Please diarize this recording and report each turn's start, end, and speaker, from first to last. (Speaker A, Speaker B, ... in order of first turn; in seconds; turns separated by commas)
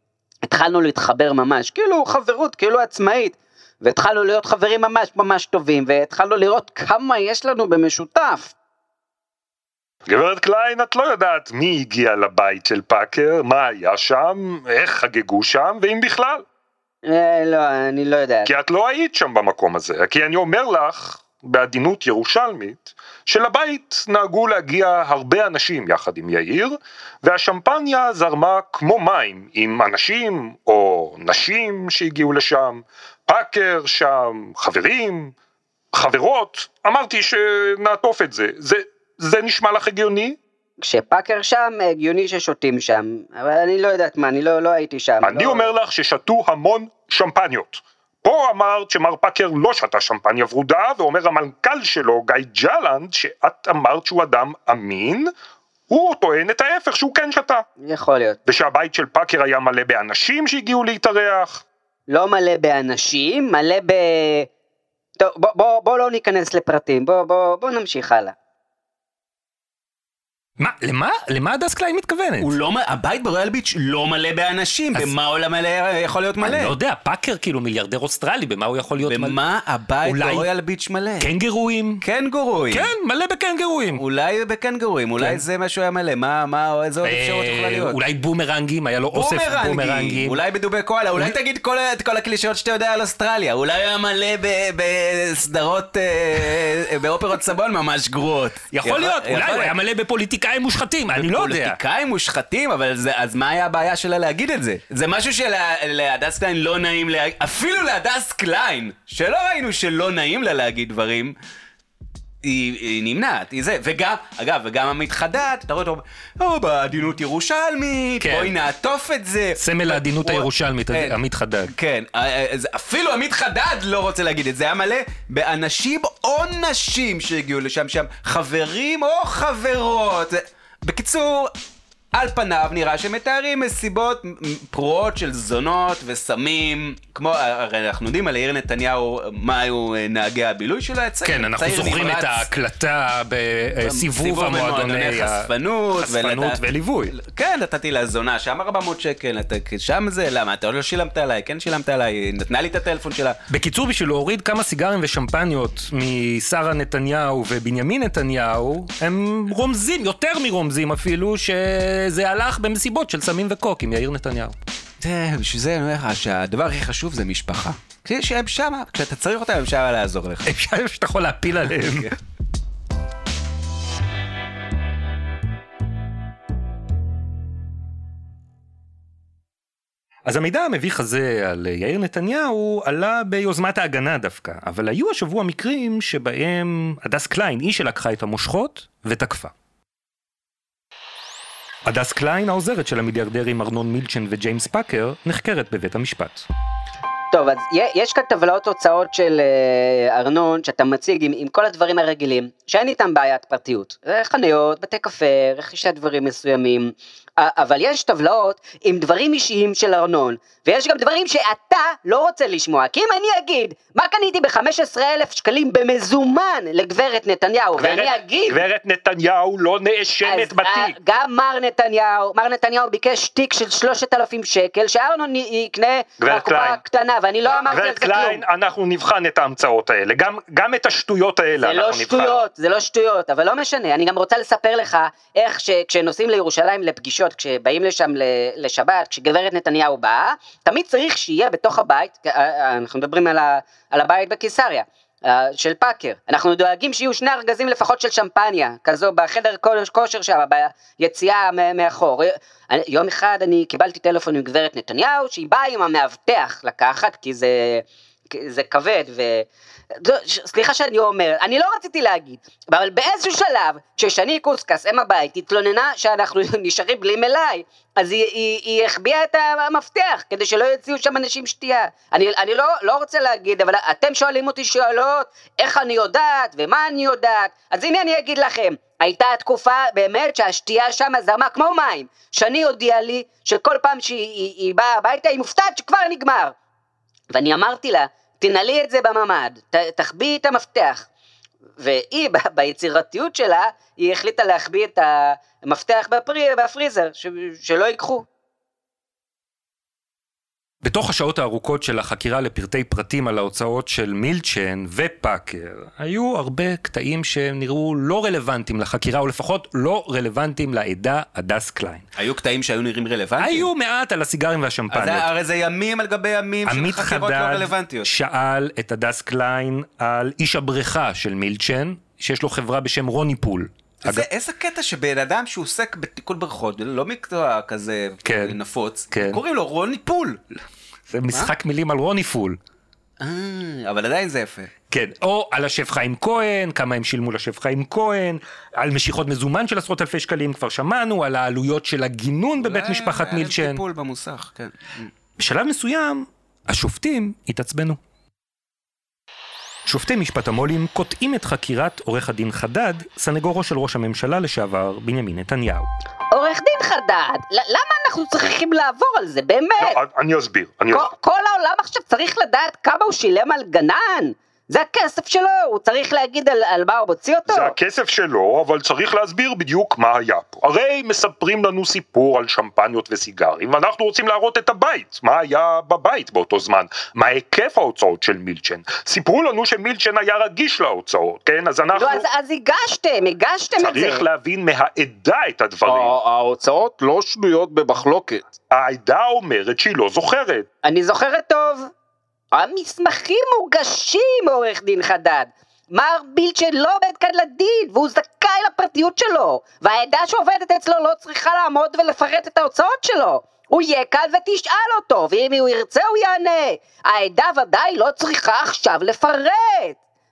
Speaker A: 0.5-8.5, Speaker B: 10.1-16.4, Speaker A: 17.1-18.5, Speaker B: 18.5-35.3, Speaker B: 35.9-40.4, Speaker A: 40.8-45.7, Speaker B: 45.2-55.3, Speaker B: 55.9-57.6, Speaker A: 57.8-58.4, Speaker B: 58.5-61.6, Speaker A: 62.1-64.5, Speaker A: 65.2-68.3, Speaker C: 70.6-72.5, Speaker D: 72.4-76.7, Speaker C: 76.4-79.4, Speaker D: 79.0-81.3, Speaker C: 80.0-80.5, Speaker C: 81.2-82.0, Speaker D: 82.0-82.9, Speaker C: 82.7-84.0, Speaker D: 84.0-88.0, Speaker C: 85.2-85.4, Speaker C: 87.0-90.4, Speaker D: 89.1-99.8, Speaker C: 98.7-101.8, Speaker D: 101.1-111.3, Speaker D: 112.4-131.5, Speaker C: 118.2-118.5, Speaker C: 119.6-121.7, Speaker D: 132.1-142.5, Speaker C: 141.2-147.2, Speaker D: 143.8-153.4, Speaker C: 153.5-164.6, Speaker D: 165.0-170.5, Speaker C: 170.4-172.1, Speaker D: 171.7-172.2, Speaker C: 180.3-189.5, Speaker C: 191.9-196.4, Speaker A: 197.3-218.6, Speaker B: 217.8-220.9, Speaker A: 220.2-228.4, Speaker B: 226.2-226.8, Speaker B: 227.5-232.4, Speaker A: 231.6-259.5, Speaker A: 260.0-286.6, Speaker A: 287.3-291.1, Speaker A: 291.8-298.3, Speaker C: 300.8-312.1, Speaker D: 312.2-313.7, Speaker C: 313.4-315.3, Speaker D: 314.9-318.1, Speaker C: 316.7-324.3, Speaker D: 324.0-330.4, Speaker C: 328.2-328.6, Speaker C: 329.1-329.4, Speaker C: 331.1-332.6, Speaker D: 333.2-334.7, Speaker C: 334.9-343.8, Speaker D: 342.6-345.1, Speaker C: 345.4-348.0, Speaker C: 349.9-355.9, Speaker A: 356.3-360.0, Speaker B: 359.8-361.1, Speaker A: 360.9-367.7, Speaker B: 367.5-382.2, Speaker A: 381.9-384.2, Speaker B: 383.8-386.2, Speaker E: 385.9-388.5, Speaker B: 388.7-390.7, Speaker A: 390.8-391.9, Speaker A: 392.5-410.0